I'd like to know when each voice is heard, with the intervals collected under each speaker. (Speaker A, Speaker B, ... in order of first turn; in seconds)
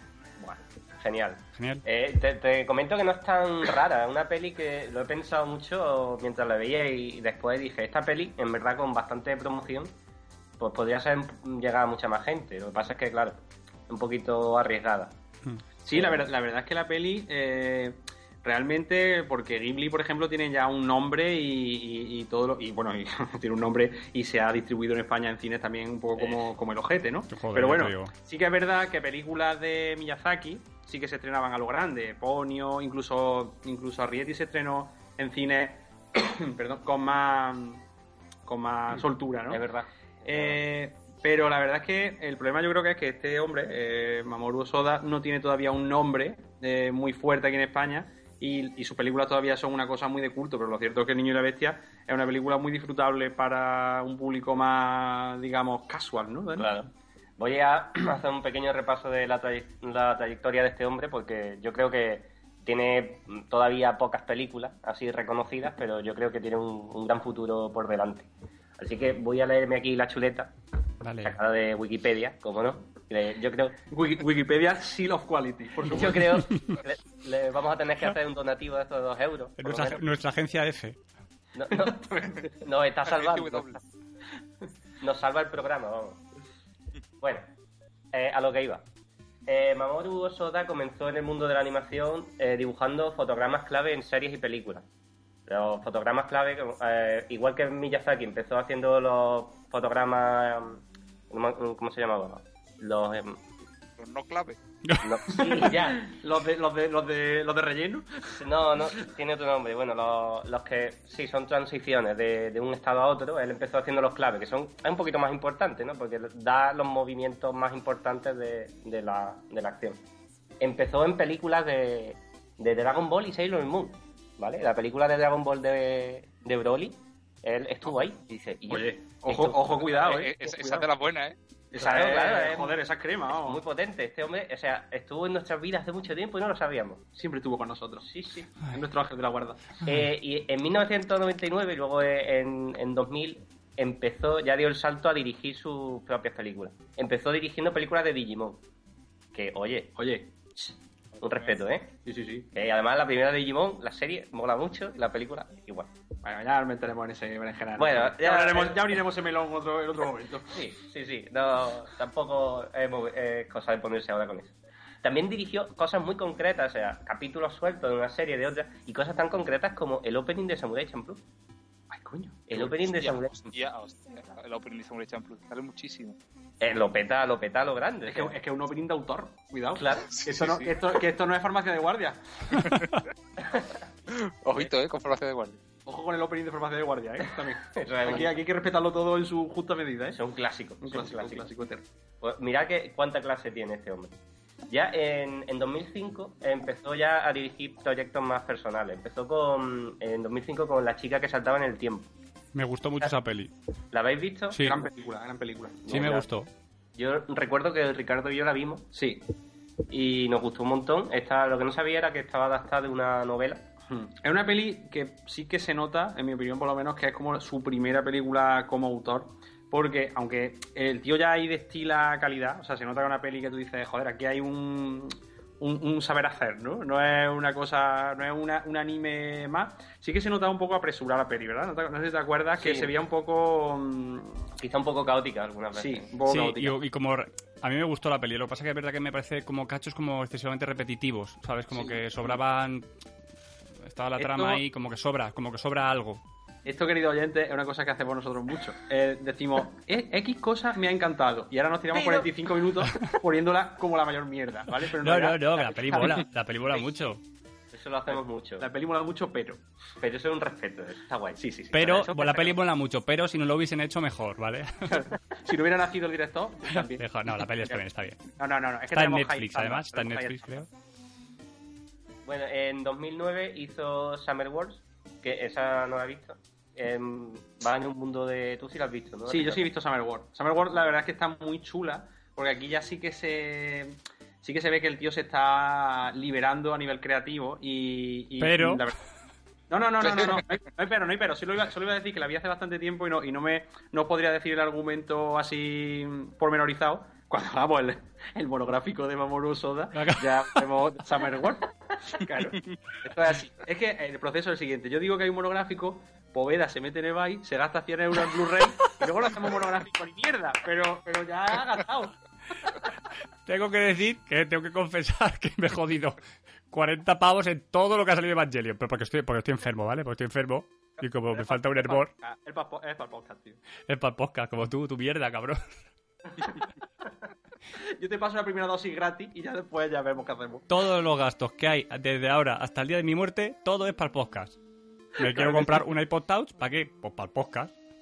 Speaker A: 0.4-9.9, 10.6-15.2, 15.9-16.2, 39.5-40.6, 56.6-70.5, 71.2-73.8, 75.8-80.0, 81.5-83.8, 85.0-86.2, 87.2-87.5, 88.1-88.8, 89.5-94.8, 95.5-103.4, 105.0-106.1, 108.4-120.0, 120.6-129.8, 131.8-132.8, 133.3-137.0, 138.1-138.5, 139.8-148.6, 149.3-149.9, 151.2-151.9, 152.5-155.9, 157.8-158.9, 160.5-171.2, 172.5-173.5, 176.6-178.3, 179.8-180.1, 183.4-183.8, 187.7-188.3, 190.1-191.5, 192.2-194.1, 194.7-202.1, 203.9-204.7, 205.8-206.3, 206.9-208.9, 209.9-213.7, 232.6-232.9, 234.6-236.1, 251.9-252.3, 257.7-258.7, 260.0-261.4, 272.2-279.6
Speaker B: 1.5-1.8, 27.3-28.1, 71.0-71.4, 79.6-81.0, 104.8-105.7, 202.5-203.5, 204.5-204.8, 205.9-206.5, 236.2-242.9, 243.8-246.2, 254.8-257.2, 261.7-265.0, 266.7-268.2, 268.9-270.7, 288.4-288.9, 299.9-300.3, 313.4-316.2, 316.7-322.1, 323.9-325.6, 330.7-334.6, 335.2-337.7
Speaker C: 15.8-37.8, 38.5-39.6, 40.2-56.7, 73.9-76.4, 81.7-82.5, 105.3-109.0, 128.7-130.9, 131.7-133.6, 137.2-139.8, 149.9-150.3, 152.0-152.5, 156.2-160.6, 171.9-172.5, 178.1-182.6, 185.8-190.2, 190.8-191.8, 204.6-206.2, 208.9-209.2, 213.9-234.5, 235.7-236.8, 244.2-244.6, 246.7-256.2, 258.1-259.6, 261.4-262.5, 264.9-267.1, 268.4-270.6, 279.3-289.0, 289.7-312.2, 321.3-323.6, 327.9-330.7, 335.2-335.8
Speaker D: 83.0-83.8, 104.0-104.6, 129.8-131.3, 172.5-176.2, 180.1-180.7, 182.6-182.9, 184.1-185.6